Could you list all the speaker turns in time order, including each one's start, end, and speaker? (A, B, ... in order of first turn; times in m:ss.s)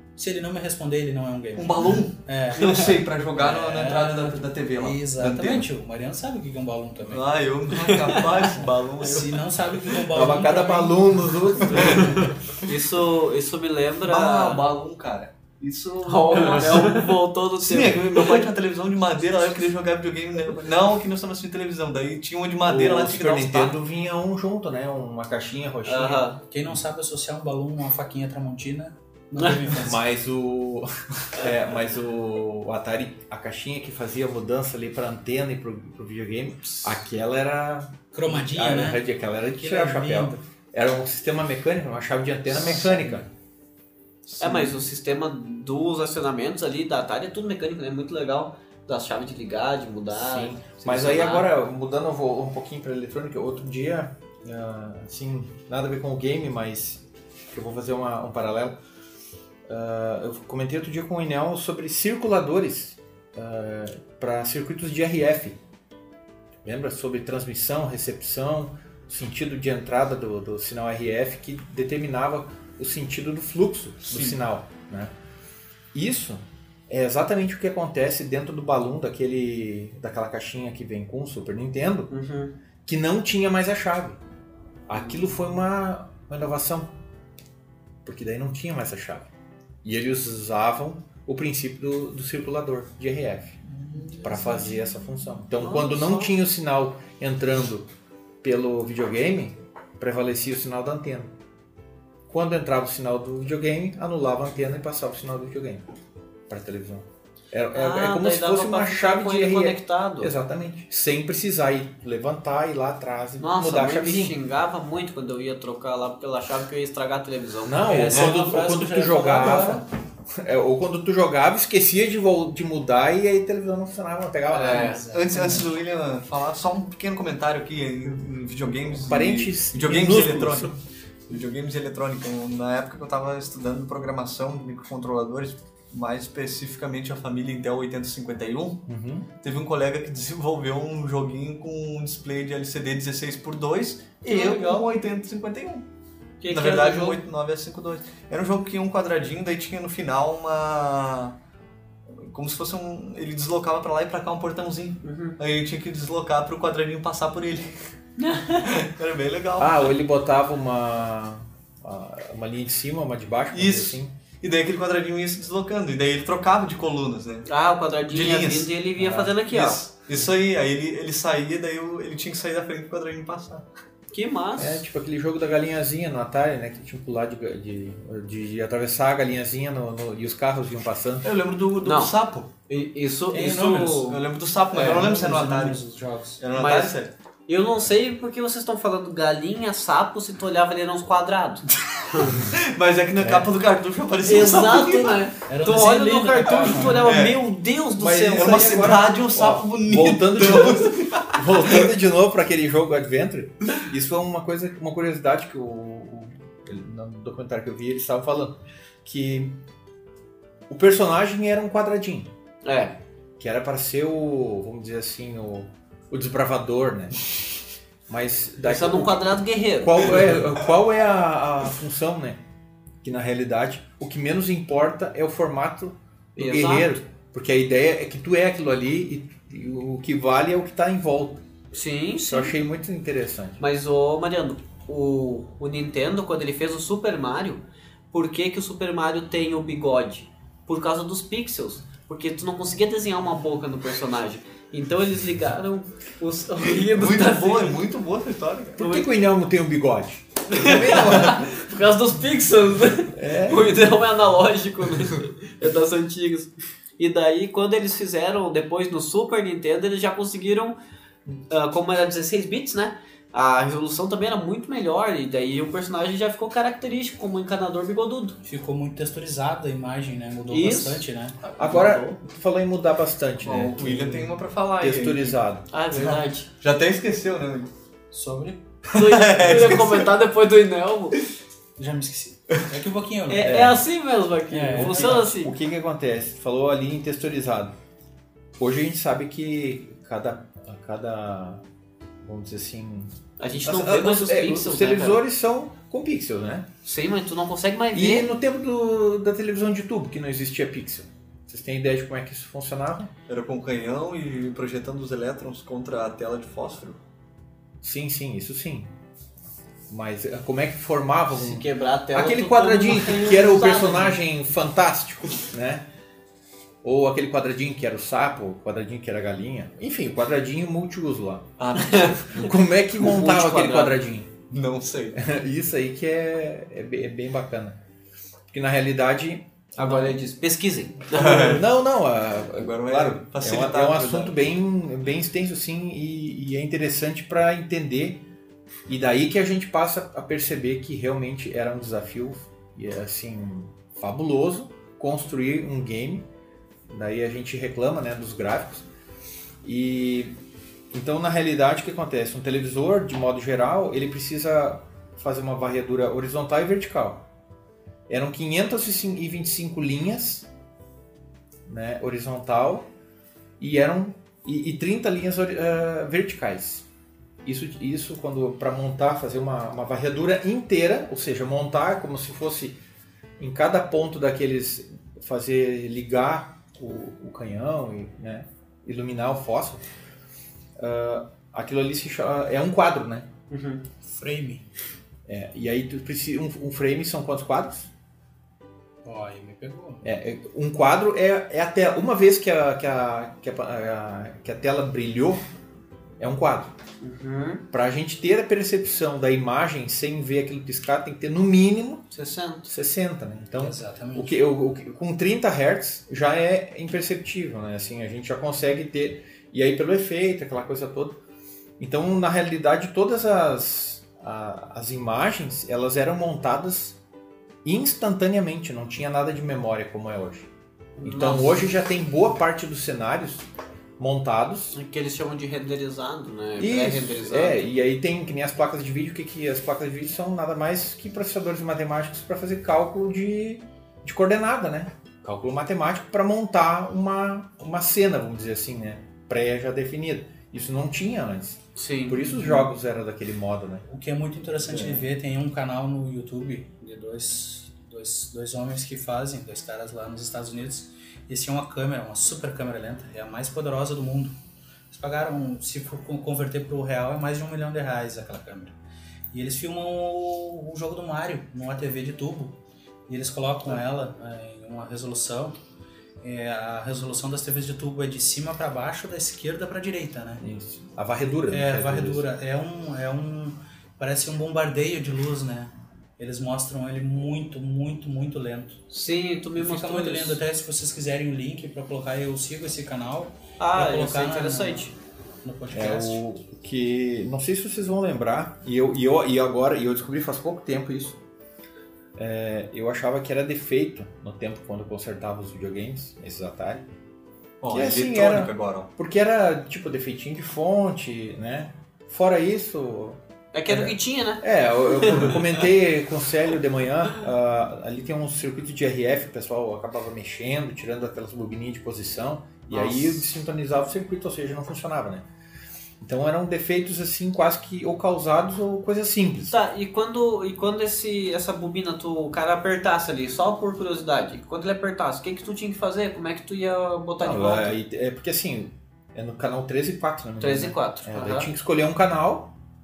0:00.2-0:07.4 A
0:01.6-0:05.7 B
0:07.1-0:09.5 B
0:07.9-0:08.5 C
0:09.0-0:11.0 A
0:10.1-0:12.3 D
0:11.7-0:12.1 B
0:12.6-0:14.6 C
0:14.0-0:17.0 B
0:16.0-0:18.5 C
0:17.6-0:23.8 B
0:22.6-0:26.3 D
0:25.8-0:26.4 C
0:26.5-0:30.0 A
0:29.4-0:29.6 C
0:29.8-0:43.3 D
0:38.1-0:39.0 A
0:39.6-0:40.4 A
0:42.6-0:43.2 B
0:44.3-0:44.8 B
0:44.4-0:51.5 C
0:50.1-0:58.8 D
0:59.7-1:05.6 D
1:06.6-1:15.1 D
1:15.9-1:22.1 D
1:22.1-1:22.5 C
1:22.9-1:24.2 D
1:24.9-1:26.9 D
1:28.0-1:29.3 D
1:29.8-1:33.6 D
1:33.9-1:34.3 B
1:34.2-1:37.9 D
1:35.6-1:36.3 C
1:38.4-1:41.3 D
1:42.3-1:45.8 D
1:46.5-1:54.4 D
1:47.7-1:50.3 C
1:53.4-1:58.3 C
1:57.6-2:05.0 D
1:57.8-1:59.8 A
2:04.5-2:05.0 C
2:04.6-2:05.7 A
2:05.1-2:18.8 B
2:09.0-2:10.8 D
2:18.9-2:19.3 D
2:19.4-2:25.8 B
2:24.2-2:24.9 C
2:26.4-2:27.2 C
2:26.5-2:31.4 B
2:32.1-2:37.8 B
2:35.0-2:35.4 C
2:38.2-2:38.7 C
2:38.6-2:39.9 B
2:39.6-2:44.1 D
2:43.5-2:47.5 B
2:47.5-2:49.8 C
2:48.1-2:53.6 B
2:54.1-2:54.8 C
2:54.6-3:01.3 D
3:01.2-3:02.5 B
3:01.8-3:02.1 C
3:02.7-3:04.2 C
3:03.3-3:04.2 A
3:04.0-3:05.8 B
3:04.7-3:06.4 A
3:06.4-3:07.1 B
3:06.5-3:11.7 C
3:11.9-3:15.3 B
3:13.2-3:13.5 D
3:14.2-3:18.9 C
3:15.5-3:17.1 A
3:16.5-3:17.4 B
3:18.0-3:29.6 D
3:18.3-3:21.9 B
3:30.7-3:32.3 D
3:32.6-3:33.0 C
3:33.4-3:37.2 D
3:38.1-3:39.3 D
3:38.6-3:40.3 C
3:39.8-3:42.4 D
3:43.0-3:51.4 D
3:46.4-3:46.9 C
3:51.7-3:52.6 C
3:52.3-3:53.6 D
3:53.6-4:07.8 C
4:06.8-4:08.8 B
4:08.8-4:11.4 D
4:08.8-4:09.1 C
4:10.5-4:20.8 C
4:10.6-4:11.5 B
4:13.1-4:13.8 D
4:21.3-4:28.4 C
4:28.4-4:31.4 A
4:30.5-4:32.2 C
4:31.6-4:35.7 D
4:33.4-4:35.4 B
4:35.7-4:36.5 C
4:35.9-4:37.7 B
4:38.1-4:38.6 A
4:38.9-4:40.1 B
4:38.9-4:41.2 C
4:41.8-4:43.8 A
4:43.3-4:45.5 C
4:43.4-4:43.8 D
4:44.5-4:45.3 A
4:44.8-4:47.7 D
4:48.6-4:51.6 D
4:52.2-4:56.7 D
4:53.4-4:55.2 C
4:56.8-4:58.3 C
4:57.9-5:03.1 D
5:03.3-5:07.0 B
5:07.8-5:08.9 D
5:09.9-5:15.9 D
5:11.3-5:14.2 C
5:16.8-5:21.5 D
5:21.6-5:22.4 B
5:21.8-5:22.5 C
5:22.4-5:24.4 D
5:23.0-5:24.0 C
5:24.5-5:25.2 B
5:25.2-5:27.8 D
5:28.5-5:30.2 D
5:29.8-5:31.6 C
5:31.1-5:31.6 B
5:31.2-5:38.2 D
5:32.5-5:34.4 B
5:38.9-5:46.3 D
5:46.9-5:48.9 D
5:49.6-5:50.4 D
5:50.9-5:57.2 D
5:58.1-6:00.5 D
6:01.7-6:02.9 D
6:03.6-6:06.9 D
6:07.4-6:12.8 D
6:13.4-6:19.8 D
6:20.8-6:23.3 D
6:23.5-6:23.8 C
6:24.0-6:24.6 A
6:25.3-6:27.9 D
6:29.0-6:30.1 A
6:30.0-6:35.4 D
6:36.2-6:36.7 D
6:37.0-6:37.6 C
6:37.7-6:42.0 D
6:42.1-6:42.7 C
6:42.7-6:51.2 D
6:43.6-6:44.4 A
6:51.8-6:57.0 D
6:57.6-7:00.5 D
7:01.0-7:01.7 C
7:01.0-7:03.4 D
7:04.0-7:04.8 D
7:04.7-7:07.7 C
7:06.6-7:23.8 D
7:21.8-7:22.7 C
7:23.9-7:34.3 A
7:24.7-7:25.0 B
7:34.9-7:38.8 A
7:39.3-7:42.6 A
7:43.1-7:45.5 A
7:46.2-7:50.4 A
7:50.4-7:52.2 D
7:51.5-7:58.8 A
7:58.9-8:00.4 C
7:59.6-8:04.9 A
8:03.6-8:04.9 C
8:05.4-8:06.2 A
8:05.7-8:11.2 D
8:12.2-8:16.8 D
8:17.6-8:18.9 B
8:17.7-8:35.2 D
8:23.5-8:25.5 C
8:32.7-8:33.3 C
8:36.0-8:39.6 D
8:39.5-8:47.8 C
8:47.2-8:52.5 D
8:50.4-8:51.5 C